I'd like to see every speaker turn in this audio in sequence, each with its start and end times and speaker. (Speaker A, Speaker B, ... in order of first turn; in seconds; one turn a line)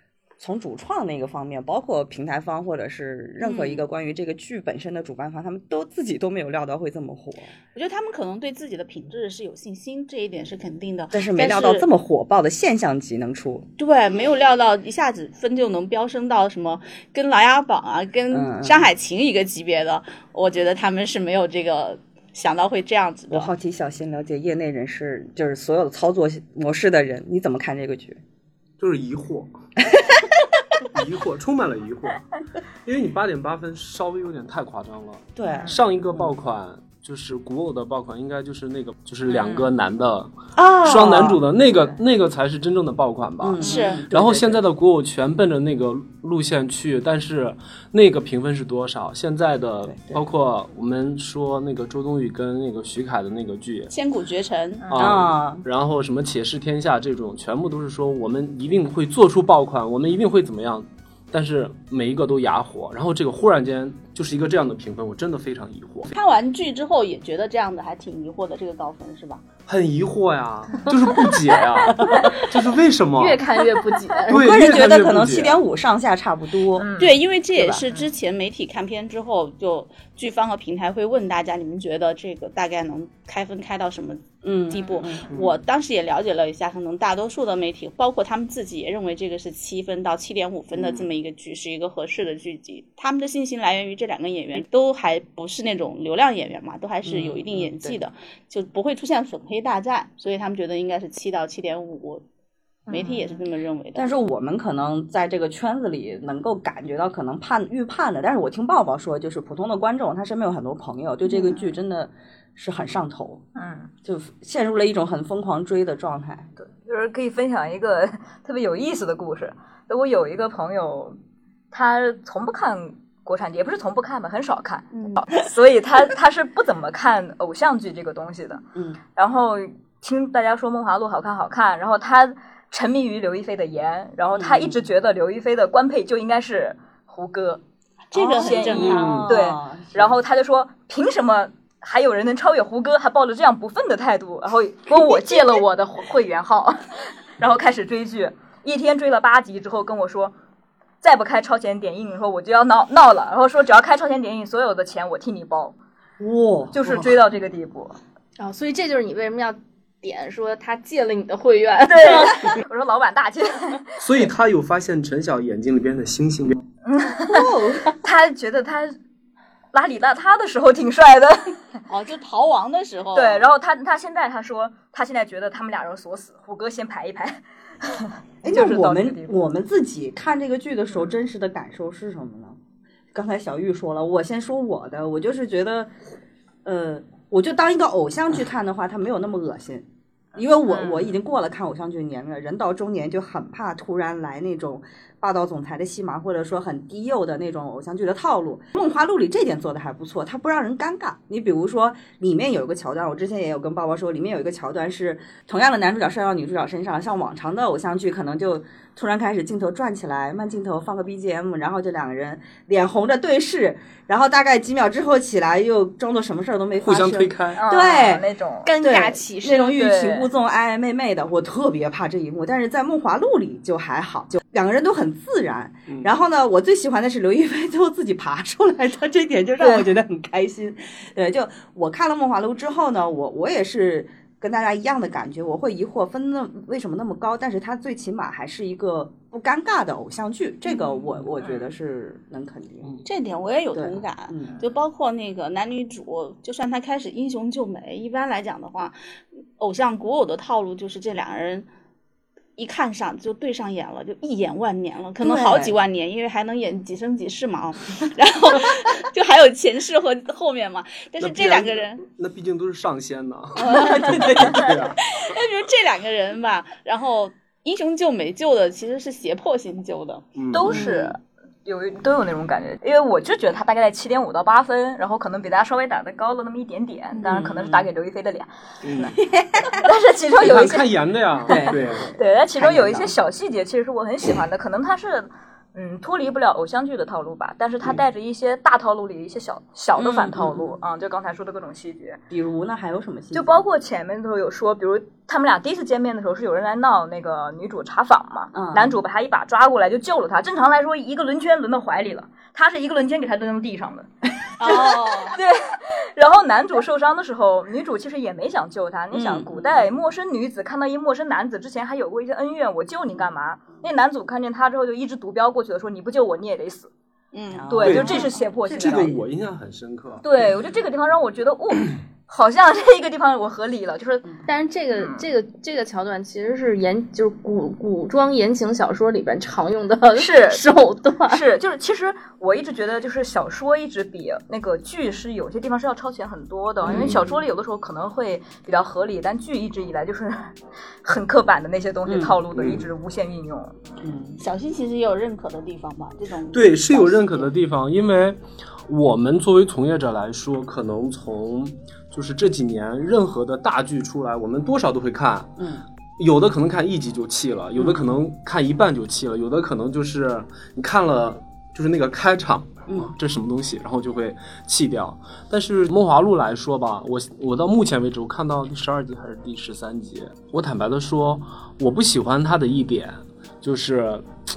Speaker A: 0.4-7.5
Speaker B: 7.7-11.9
Speaker A: 11.1-13.7
Speaker B: 13.8-23.5
Speaker A: 18.3-18.9
Speaker A: 23.3-28.2
Speaker C: 28.8-29.5
Speaker C: 30.8-32.2
Speaker C: 32.8-53.9
Speaker A: 35.4-36.3
Speaker A: 39.3-39.7
Speaker A: 40.5-41.9
Speaker A: 43.4-44.6
Speaker B: 43.6-44.0
Speaker A: 49.9-50.2
Speaker B: 53.9-54.9
Speaker D: 54.9-55.1
Speaker C: 54.9-66.1
Speaker A: 55.0-55.6
Speaker B: 66.1-69.4
Speaker C: 69.7-73.4
Speaker A: 72.0-72.2
Speaker E: 73.2-74.6
Speaker C: 74.3-75.6
Speaker A: 74.3-76.9
Speaker D: 76.8-77.1
Speaker B: 77.0-102.2
Speaker A: 77.5-77.8
Speaker A: 84.4-85.3
Speaker A: 90.7-91.0
Speaker A: 97.0-98.0
Speaker A: 102.9-103.4
Speaker B: 102.9-104.1
Speaker A: 103.9-113.4
Speaker D: 113.5-113.9
Speaker A: 114.0-116.5
Speaker D: 116.6-121.2
Speaker D: 121.7-128.6
Speaker B: 124.9-125.2
Speaker A: 128.7-129.0
Speaker D: 129.1-137.6
Speaker A: 134.3-134.8
Speaker B: 138.1-139.1
Speaker A: 138.1-140.2
Speaker D: 138.2-150.3
Speaker E: 138.7-139.3
Speaker C: 138.9-139.3
Speaker D: 151.0-155.8
Speaker A: 156.2-157.1
Speaker D: 156.7-158.0
Speaker E: 158.4-162.5
Speaker D: 161.8-164.2
Speaker C: 164.0-166.6
Speaker D: 166.8-168.9
Speaker A: 167.3-167.9
Speaker D: 169.7-171.6
Speaker B: 171.9-173.5
Speaker D: 173.1-179.5
Speaker A: 178.4-182.6
Speaker A: 183.1-185.9
Speaker A: 186.6-218.2
Speaker D: 190.6-191.1
Speaker C: 216.8-217.6
Speaker D: 217.6-218.7
Speaker E: 218.6-219.7
Speaker A: 218.8-242.9
Speaker D: 219.6-220.3
Speaker D: 229.6-229.9
Speaker B: 243.0-248.9
Speaker A: 243.7-244.6
Speaker B: 249.6-251.7
Speaker B: 252.6-262.0
Speaker A: 255.2-255.7
Speaker C: 261.2-264.9
Speaker A: 263.6-264.9
Speaker B: 263.6-270.2
Speaker C: 270.4-270.8
Speaker D: 270.5-278.5
Speaker A: 270.7-271.0
Speaker B: 277.1-277.5
Speaker A: 277.2-277.9
Speaker C: 278.8-279.1
Speaker A: 278.9-279.8
Speaker D: 279.7-292.2
Speaker C: 280.4-282.1
Speaker A: 281.5-282.0
Speaker A: 282.6-283.1
Speaker A: 290.0-290.8
Speaker A: 292.3-293.6
Speaker D: 293.3-304.1
Speaker A: 298.5-299.0
Speaker B: 304.6-305.4
Speaker D: 304.6-316.9
Speaker A: 309.1-309.9
Speaker B: 317.3-318.1
Speaker A: 317.5-319.1
Speaker D: 317.7-319.2
Speaker C: 317.8-320.2
Speaker D: 320.2-324.4
Speaker E: 324.4-331.1
Speaker D: 324.9-325.2
Speaker D: 330.1-330.6
Speaker B: 331.0-331.3
Speaker D: 331.2-343.8
Speaker A: 336.8-337.4
Speaker A: 342.1-342.4
Speaker C: 342.5-342.9
Speaker A: 344.0-344.4
Speaker B: 344.4-347.5
Speaker C: 346.5-355.5
Speaker A: 355.6-355.8
Speaker C: 356.2-374.3
Speaker A: 357.8-358.2
Speaker A: 362.9-363.1